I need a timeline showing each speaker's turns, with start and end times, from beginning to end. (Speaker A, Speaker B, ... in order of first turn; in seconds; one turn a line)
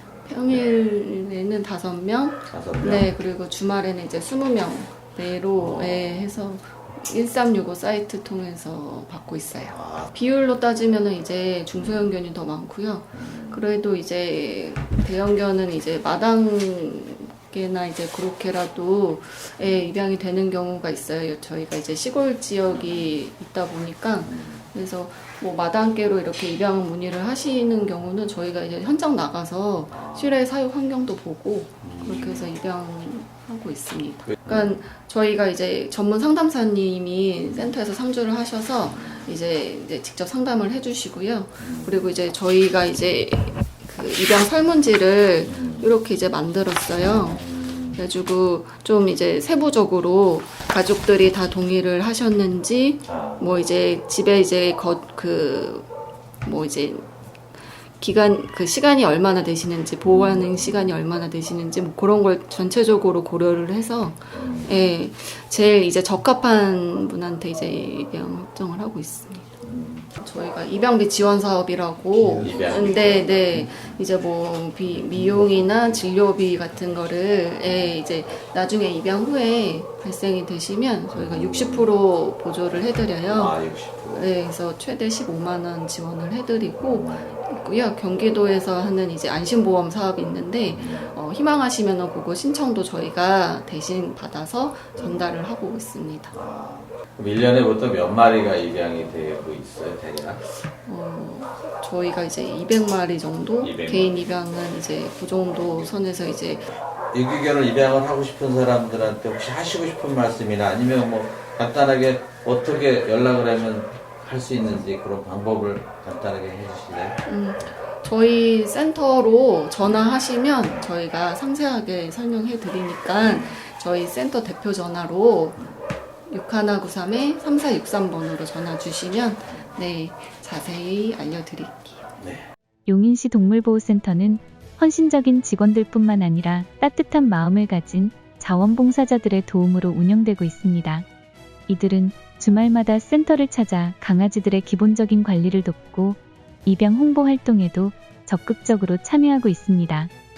Speaker A: 0.2-55.9
Speaker B: 0.4-0.7
Speaker B: 2.5-3.1
Speaker B: 5.6-6.3
Speaker B: 9.7-10.1
Speaker B: 11.7-12.1
Speaker B: 13.1-13.7
Speaker B: 19.6-19.9
Speaker B: 22.7-23.1
Speaker B: 24.2-24.7
Speaker B: 29.9-30.4
Speaker B: 31.8-32.5
Speaker B: 34.3-34.7
Speaker B: 37.5-37.7
Speaker B: 38.8-39.4
Speaker B: 41.6-42.0
Speaker B: 45.4-45.9
Speaker B: 47.0-48.0
Speaker B: 53.0-53.5
Speaker A: 56.4-57.1
Speaker A: 58.0-69.5
Speaker B: 60.0-60.9
Speaker B: 64.3-64.9
Speaker B: 69.6-70.1
Speaker A: 70.2-83.5
Speaker B: 72.4-74.0
Speaker B: 74.8-76.1
Speaker B: 77.6-78.0
Speaker B: 81.1-81.9
Speaker B: 83.2-84.4
Speaker A: 84.1-96.3
Speaker B: 86.8-87.4
Speaker B: 90.7-91.2
Speaker B: 95.0-95.3
Speaker B: 96.3-100.4
Speaker A: 100.8-106.7
Speaker B: 103.6-104.3
Speaker B: 107.1-117.2
Speaker A: 117.2-125.6
Speaker B: 123.2-123.6
Speaker A: 126.3-132.1
Speaker C: 132.8-141.1
Speaker C: 141.7-150.1